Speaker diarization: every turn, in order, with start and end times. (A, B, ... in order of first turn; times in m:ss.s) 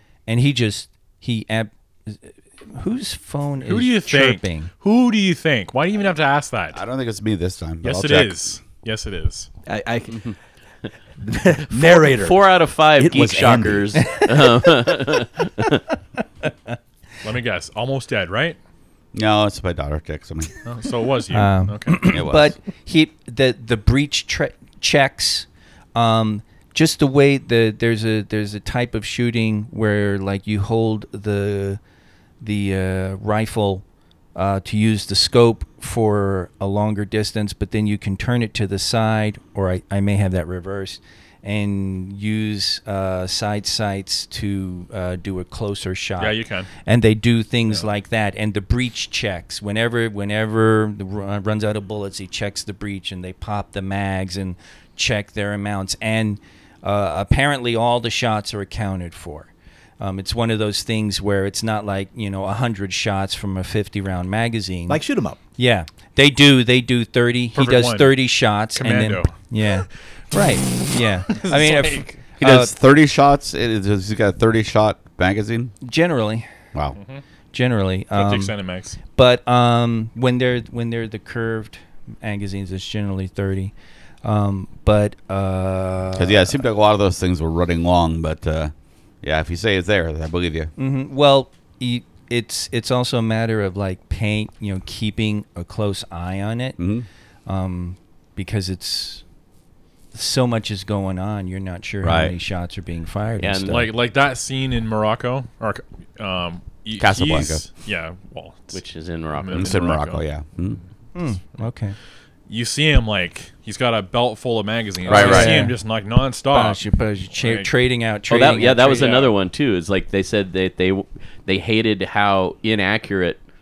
0:00.3-0:04.7 A
0:03.6-0:06.8 B
0:06.7-0:08.4 C
0:07.8-0:09.5 B
0:09.6-0:10.3 D
0:11.2-0:12.4 D
0:11.7-0:15.8 E
0:13.0-0:14.1 D
0:14.0-0:14.9 A
0:17.2-0:18.6 B
0:19.1-0:20.5 C
0:20.6-0:22.2 B
0:21.3-0:31.8 A
0:22.1-0:22.5 C
0:32.4-0:33.8 A
0:34.3-1:05.0 A
0:46.2-0:46.7 B
1:04.9-1:05.4 D
1:05.6-1:12.7 A
1:07.5-1:08.2 B
1:08.7-1:09.4 B
1:11.3-1:12.2 B
1:12.4-1:15.7 C
1:15.8-1:16.5 A
1:16.9-1:17.2 B
1:17.5-1:18.5 A
1:18.1-1:19.0 B
1:19.2-1:26.6 A
1:26.1-1:28.7 C
1:29.2-1:30.7 C
1:30.8-1:36.8 A
1:36.8-1:37.1 C
1:37.4-1:39.2 A
1:40.1-1:43.9 A
1:42.0-1:42.3 C
1:43.4-1:43.7 E
1:43.6-1:48.8 B
1:47.0-1:47.6 C
1:48.7-1:49.8 E
1:49.4-1:50.8 B
1:49.5-1:50.8 C
1:51.1-1:52.0 A
1:52.5-1:56.8 B
1:55.0-1:55.6 C
1:55.0-1:55.8 A
1:56.5-1:59.1 A
1:57.3-1:57.7 B
1:58.3-2:03.4 E
1:58.9-1:59.3 B